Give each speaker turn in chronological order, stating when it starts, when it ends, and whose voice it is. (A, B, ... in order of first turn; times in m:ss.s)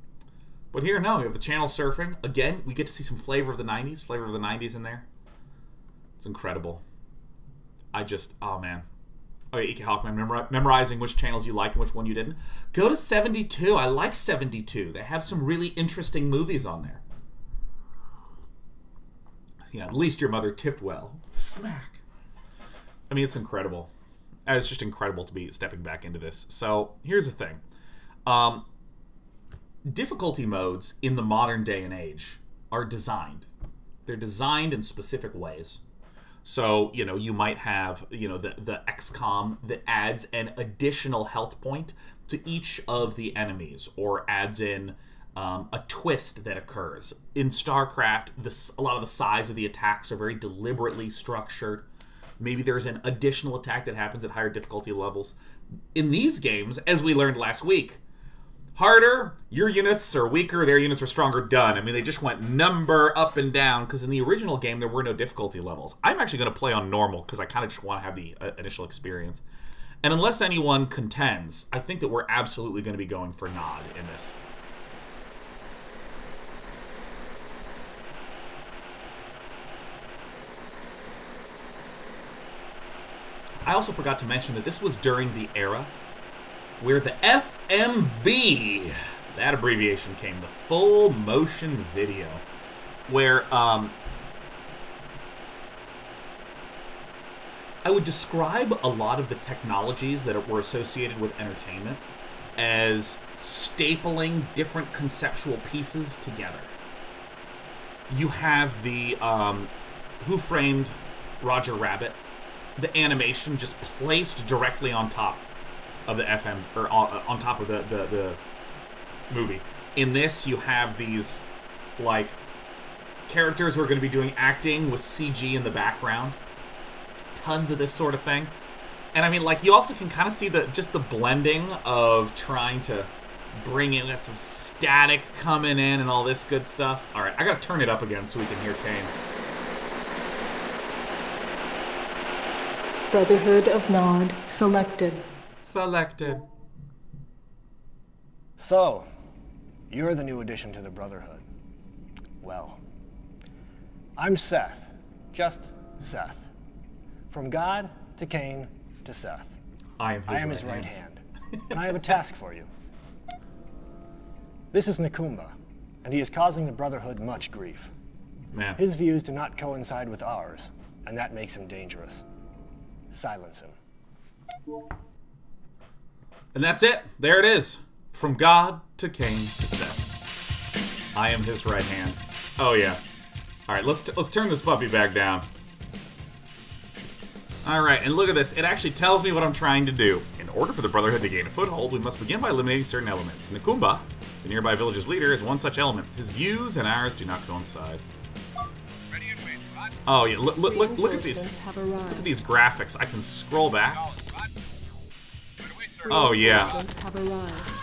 0:00.7-0:05.1 A
0:06.2-0:06.8 A
0:07.9-0:08.9 A
0:09.5-0:17.0 A
0:19.7-0:22.0 A
0:23.1-0:23.9 A
0:24.5-0:27.6 A
0:28.3-0:28.6 A
0:29.8-0:33.5 A
0:34.1-0:35.8 A
0:36.4-0:51.9 A
0:52.4-0:55.4 A
0:55.9-0:58.0 A
0:58.8-1:09.4 A
1:10.0-1:14.4 A
1:23.6-1:25.9 A
1:26.8-1:32.4 A
1:33.1-1:33.9 A
1:37.8-1:42.0 A
1:42.6-1:46.7 A
1:48.1-1:52.2 A
1:52.8-1:55.4 A
1:56.1-1:58.4 A
1:59.3-2:01.4 A
2:02.0-2:02.4 A
2:03.3-2:06.4 A
2:07.3-2:08.5 A
2:09.1-2:19.1 A
2:23.1-2:25.3 B
2:25.6-2:26.4 A
2:28.6-2:29.1 C
2:29.9-2:31.4 C
2:32.4-2:32.8 C
2:34.2-2:36.5 C
2:37.3-2:39.6 C
2:40.0-2:40.9 A
2:40.3-2:42.7 C
2:44.7-2:47.9 C
2:48.5-2:48.8 A
2:48.8-2:52.2 C
2:53.1-2:53.8 C
2:56.5-3:00.0 A
3:01.2-3:03.0 A
3:03.7-3:05.5 A
3:07.6-3:18.0 A
3:20.1-3:21.5 A
3:20.6-3:22.3 B
3:22.1-3:24.1 A
3:26.1-3:27.7 B
3:26.1-3:26.8 A